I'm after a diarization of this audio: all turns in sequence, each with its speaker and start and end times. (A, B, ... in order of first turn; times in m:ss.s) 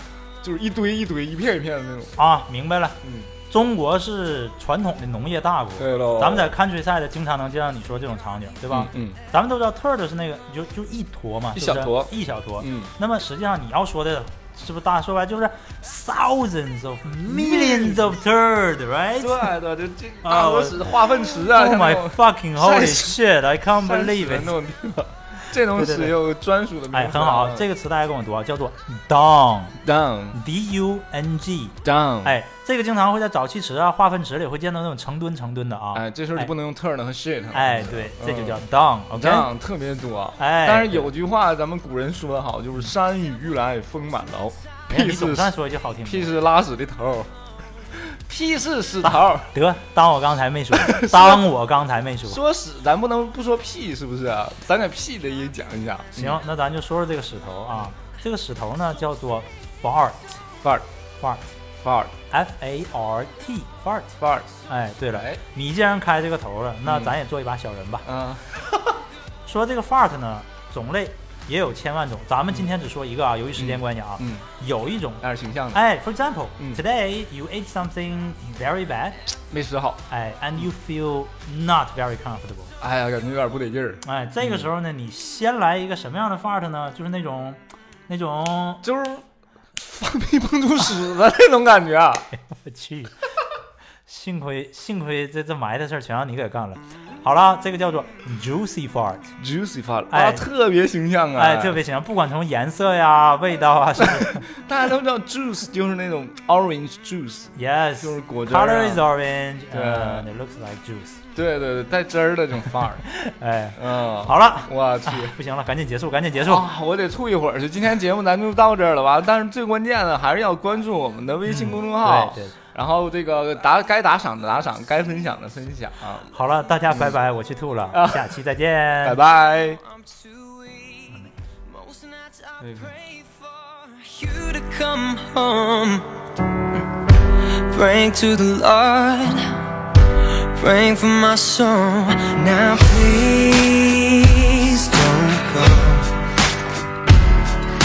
0:00.4-0:02.2 A
0:02.2-0:03.0 B
0:03.0-0:03.3 A
0:03.5-0:19.6 B
0:05.8-0:06.6 A
0:08.7-0:09.2 A
0:11.6-0:12.9 A
0:17.2-0:18.2 A
0:19.2-0:27.7 A
0:20.2-0:24.6 B
0:25.7-0:26.1 B
0:26.9-0:29.8 B
0:29.8-0:30.4 A
0:30.3-0:36.5 B
0:31.8-0:32.4 A
0:35.9-0:47.3 A
0:37.5-0:39.5 B
0:40.4-0:41.1 B
0:44.9-0:46.3 B
0:47.9-0:49.5 A
0:49.5-0:52.4 B
0:50.7-0:51.5 A
0:52.3-0:56.4 A
0:56.2-1:00.4 B
1:01.2-1:01.5 B
1:01.8-1:02.1 A
1:02.3-1:04.2 B
1:04.2-1:04.5 A
1:04.7-1:08.1 B
1:05.1-1:05.4 A
1:06.8-1:07.2 A
1:08.0-1:08.8 A
1:09.4-1:19.2 B
1:13.6-1:14.5 A
1:15.2-1:15.8 A
1:19.5-1:20.0 A
1:20.1-1:22.7 B
1:22.8-1:24.7 A
1:24.0-1:28.8 B
1:28.8-1:29.2 A
1:29.8-1:32.3 A
1:32.4-1:33.2 B
1:34.1-1:39.3 B
1:39.4-1:41.8 A
1:40.1-1:40.4 B
1:41.4-1:44.4 B
1:44.0-1:49.1 A
1:47.6-1:51.2 B
1:49.7-1:50.3 A
1:51.4-1:53.0 A
1:53.1-1:56.7 B
1:53.8-1:55.4 A
1:56.4-2:06.3 A
2:01.4-2:02.6 B
2:06.3-2:09.2 B
2:06.9-2:07.2 A
2:07.9-2:08.4 A
2:09.0-2:09.8 A
2:10.5-2:11.1 C
2:11.8-2:16.1 C
2:12.6-2:13.0 A
2:17.4-2:19.7 C
2:20.2-2:26.2 C